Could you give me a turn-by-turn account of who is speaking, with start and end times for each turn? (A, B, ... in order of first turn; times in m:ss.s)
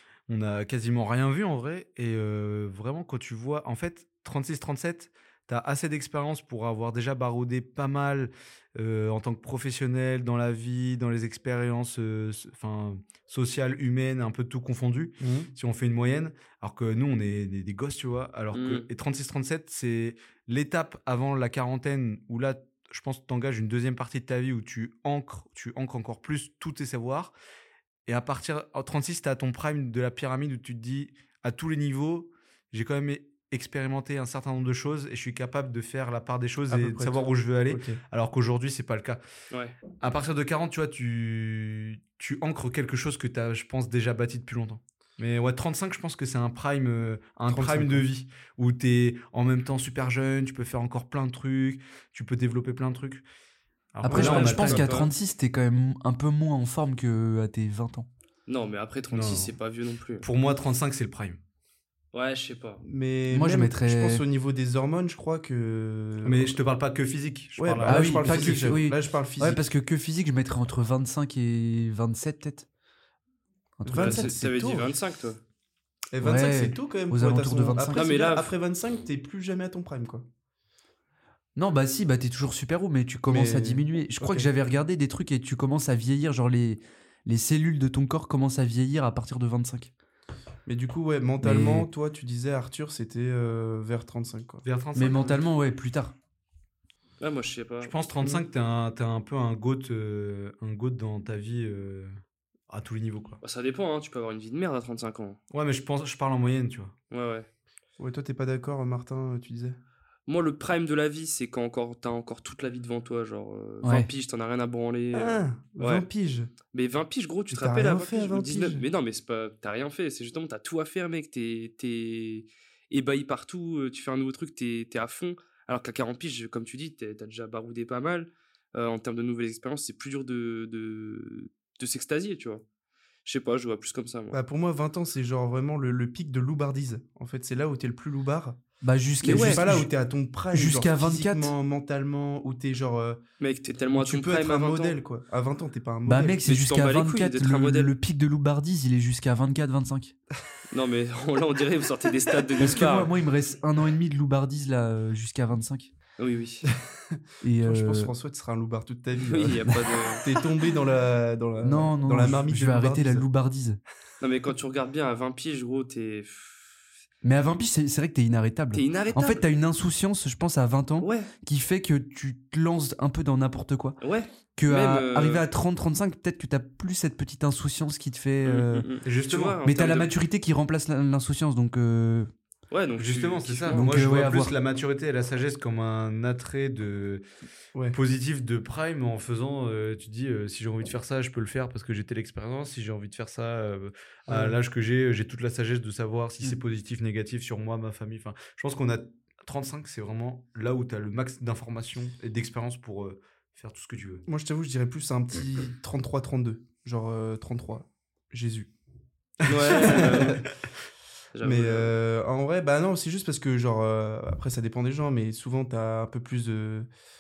0:00.3-0:27.3 A
0:15.2-0:15.5 B
0:18.5-0:18.9 C
0:28.0-0:39.2 A
0:36.7-0:38.0 B
0:39.5-0:39.8 C
0:40.0-0:53.2 A
0:47.5-0:48.0 B
0:53.9-0:55.0 A
0:54.0-0:58.1 D
0:54.1-0:55.1 C
0:58.5-1:00.2 C
0:59.1-0:59.5 A
1:00.2-1:01.4 A
1:02.1-1:02.8 C
1:02.8-1:06.6 B
1:03.3-1:04.2 D
1:06.2-1:08.7 A
1:07.6-1:09.6 B
1:07.8-1:12.7 D
1:13.8-1:14.4 D
1:13.8-1:14.9 B
1:13.9-1:15.4 C
1:16.1-1:20.2 B
1:16.2-1:18.0 D
1:17.9-1:18.5 C
1:21.6-1:29.9 D
1:23.3-1:24.5 B
1:30.6-1:34.6 B
1:31.4-1:31.9 D
1:34.6-1:35.4 A
1:34.9-1:36.1 D
1:37.2-1:37.9 C
1:37.8-1:42.2 A
1:42.7-1:43.4 A
1:43.4-1:45.4 C
1:45.5-1:46.9 A
1:47.1-1:47.5 C
1:48.0-1:49.8 B
1:50.3-1:56.0 C
1:53.8-1:54.1 D
1:55.1-1:56.5 B
1:56.7-2:12.6 C
1:57.5-1:58.8 B
2:13.2-2:14.4 C
2:14.3-2:18.6 B
2:18.8-2:19.9 D
2:19.2-2:23.2 B
2:19.2-2:19.6 C
2:20.5-2:21.5 D
2:23.4-2:25.0 C
2:23.9-2:26.4 B
2:26.0-2:30.1 D
2:26.4-2:27.9 C
2:30.7-2:33.1 C
2:32.6-2:35.9 D
2:36.2-2:36.7 C
2:37.4-2:38.1 D
2:37.6-2:43.3 B
2:39.1-2:40.2 C
2:41.6-2:43.8 D
2:44.2-2:46.7 C
2:47.2-2:54.0 D
2:48.7-2:49.4 C
2:51.0-2:51.3 C
2:54.0-2:55.4 C
2:54.6-2:58.9 D
2:58.4-3:00.1 C
2:59.0-2:59.6 A
2:59.6-3:02.3 D
3:02.7-3:03.9 C
3:03.0-3:07.2 A
3:03.7-3:04.5 D
3:07.9-3:24.2 A
3:14.3-3:14.6 B
3:24.3-3:28.7 B
3:29.4-3:30.4 C
3:29.5-3:29.7 A
3:29.5-3:30.5 B
3:31.3-3:31.9 C
3:31.4-3:36.9 B